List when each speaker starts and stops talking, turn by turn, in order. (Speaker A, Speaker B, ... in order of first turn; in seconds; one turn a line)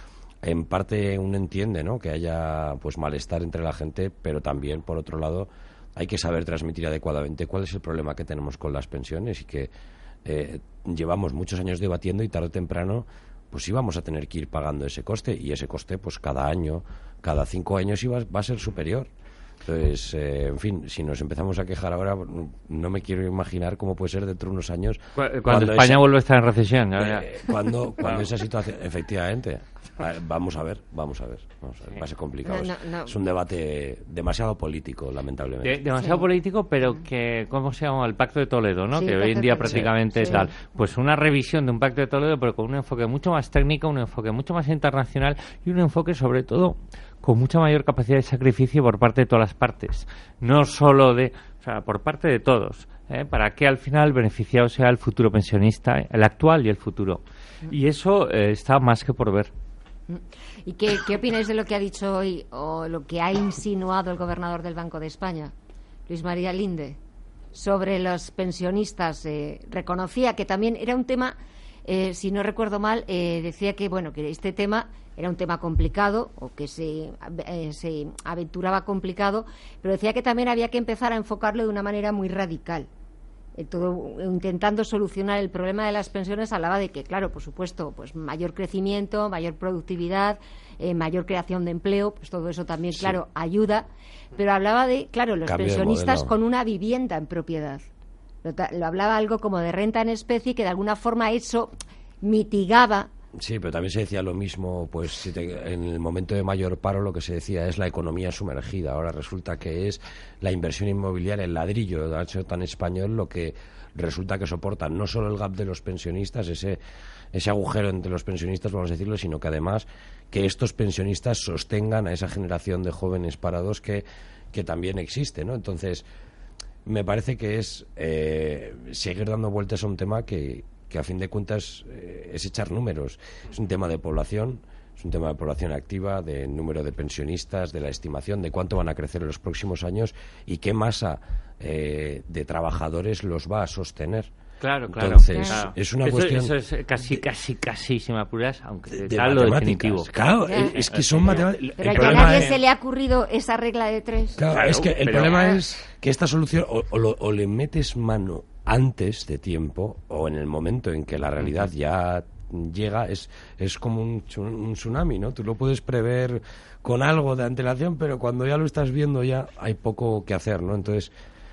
Speaker A: 0.4-9.7
Speaker A: 10.2-19.1
Speaker A: 19.6-26.0
Speaker B: 25.2-27.3
Speaker A: 27.0-35.8
Speaker C: 32.5-33.2
Speaker B: 35.6-59.5
Speaker C: 39.0-40.5
Speaker C: 60.1-65.5
Speaker C: 66.1-67.0
Speaker C: 67.5-82.9
Speaker C: 83.6-97.9
Speaker A: 95.5-96.3
Speaker C: 98.4-103.1
Speaker A: 103.4-116.8
Speaker A: 117.3-126.1
Speaker A: 126.8-144.3
Speaker B: 144.6-152.6
Speaker A: 144.9-146.5
Speaker C: 145.3-145.6
Speaker A: 148.9-152.5
Speaker C: 150.4-154.4
Speaker A: 154.4-171.1
Speaker B: 154.5-155.6